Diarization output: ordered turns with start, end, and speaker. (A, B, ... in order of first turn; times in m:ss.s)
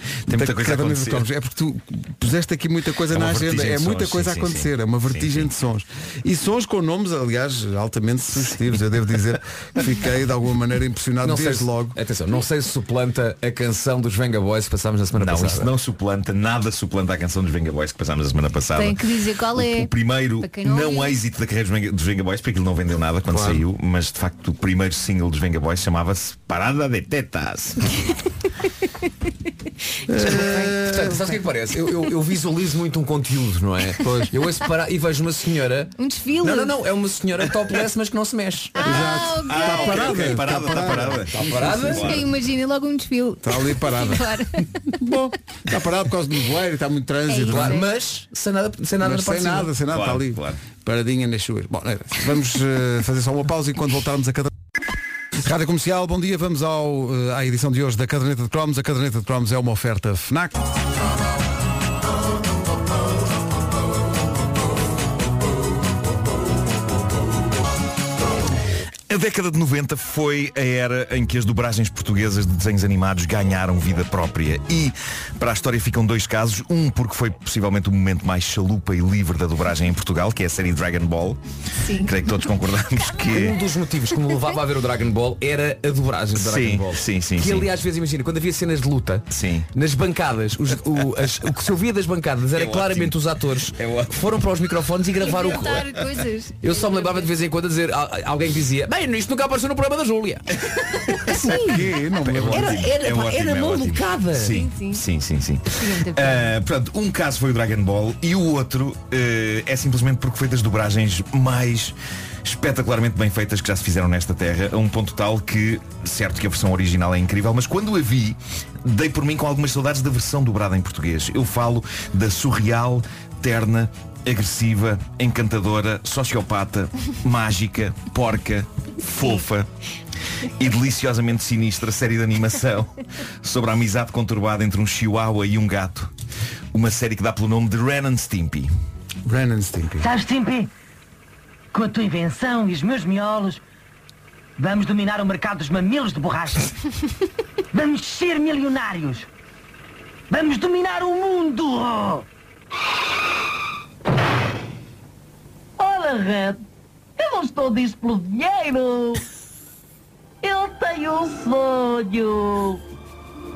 0:00.3-0:01.3 A
0:00.3-0:12.0 B
0:03.1-0:05.5 A
0:11.2-0:15.7 C
0:15.1-0:19.0 A
0:18.7-0:21.2 D
0:19.6-0:28.0 A
0:30.1-0:31.4 B
0:30.2-0:30.8 D
0:30.8-0:38.8 C
0:34.0-0:34.4 B
0:36.0-0:36.7 D
0:38.8-0:40.0 D
0:38.8-0:42.1 B
0:39.4-0:42.2 A
0:41.3-0:42.2 C
0:42.0-0:44.7 D
0:43.4-0:47.8 B
0:47.3-0:47.8 D
0:47.5-0:49.7 C
0:49.0-0:54.5 B
0:49.9-0:50.6 A
0:55.4-1:00.6 B
1:09.1-1:21.4 A
1:21.8-1:22.1 D
1:21.9-1:23.6 A
1:23.3-1:36.0 C
1:26.3-1:27.7 A
1:29.3-1:29.7 A
1:32.5-1:33.2 A
1:33.7-1:34.2 A
1:35.2-1:37.3 D
1:36.6-1:40.4 C
1:41.2-1:44.5 C
1:41.3-1:42.8 B
1:42.2-2:09.7 A
1:44.4-1:45.0 D
1:45.8-1:46.5 D
2:10.6-2:16.1 A
2:16.7-2:18.7 A
2:19.2-2:20.1 B
2:20.0-2:20.7 E
2:21.7-2:23.6 E
2:24.6-2:26.7 E
2:27.7-2:29.3 E
2:30.3-2:32.2 E
2:35.8-2:36.6 E
2:37.2-2:39.2 E
2:40.4-2:42.8 E